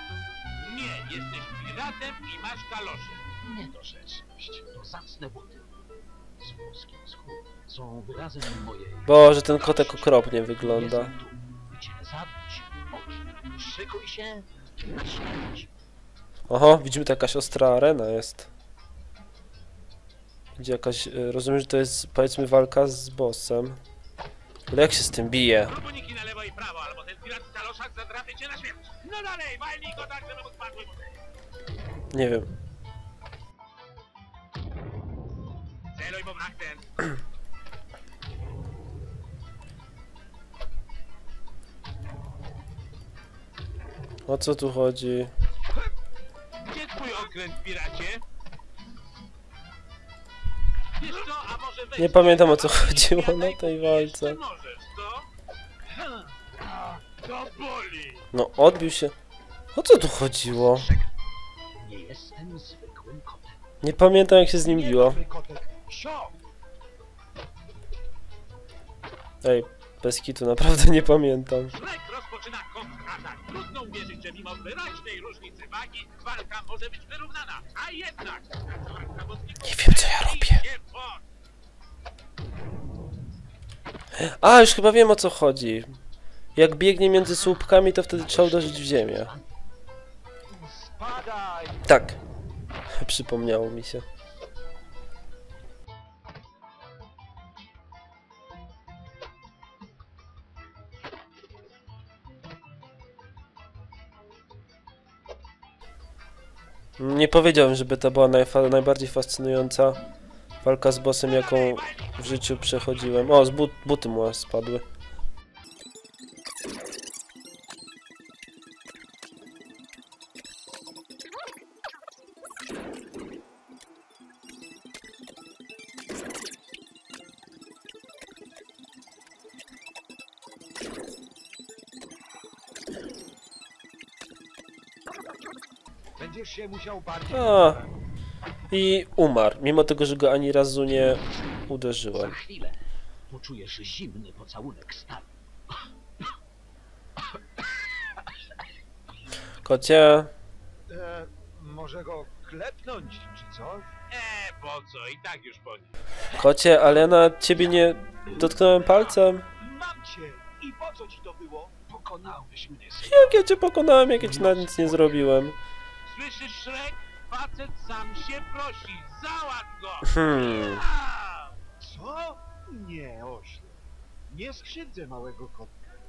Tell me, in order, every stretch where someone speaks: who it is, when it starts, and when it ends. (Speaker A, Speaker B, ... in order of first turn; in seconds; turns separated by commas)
Speaker A: 0.6-3.2, Speaker B: 3.4-5.7, Speaker B: 6.4-15.7, Speaker C: 9.1-11.1, Speaker C: 16.5-18.5, Speaker C: 20.6-23.8, Speaker C: 24.7-25.8, Speaker A: 25.7-31.2, Speaker C: 32.1-32.5, Speaker A: 35.9-37.0, Speaker C: 44.3-45.3, Speaker A: 46.6-48.2, Speaker A: 51.0-55.3, Speaker C: 52.0-54.4, Speaker D: 56.0-56.2, Speaker A: 57.1-58.2, Speaker C: 58.3-59.1, Speaker C: 59.7-60.9, Speaker B: 60.7-61.1, Speaker B: 61.7-63.7, Speaker C: 63.8-65.2, Speaker D: 64.6-66.4, Speaker C: 69.4-71.7, Speaker A: 71.7-81.2, Speaker C: 79.6-80.7, Speaker C: 84.1-85.9, Speaker C: 86.5-89.3, Speaker B: 88.0-89.5, Speaker D: 90.5-91.9, Speaker C: 91.9-92.2, Speaker C: 92.9-94.0, Speaker C: 107.0-110.0, Speaker C: 110.6-114.8, Speaker A: 111.3-113.0, Speaker D: 136.2-137.9, Speaker C: 137.3-137.8, Speaker C: 138.7-142.4, Speaker B: 142.1-145.3, Speaker C: 149.6-150.3, Speaker D: 150.9-153.9, Speaker A: 154.1-155.9, Speaker C: 156.4-159.5, Speaker D: 159.6-161.8, Speaker B: 161.8-163.4, Speaker C: 163.0-165.6, Speaker B: 164.2-165.2, Speaker A: 166.0-171.5, Speaker C: 170.1-170.8, Speaker D: 171.8-175.7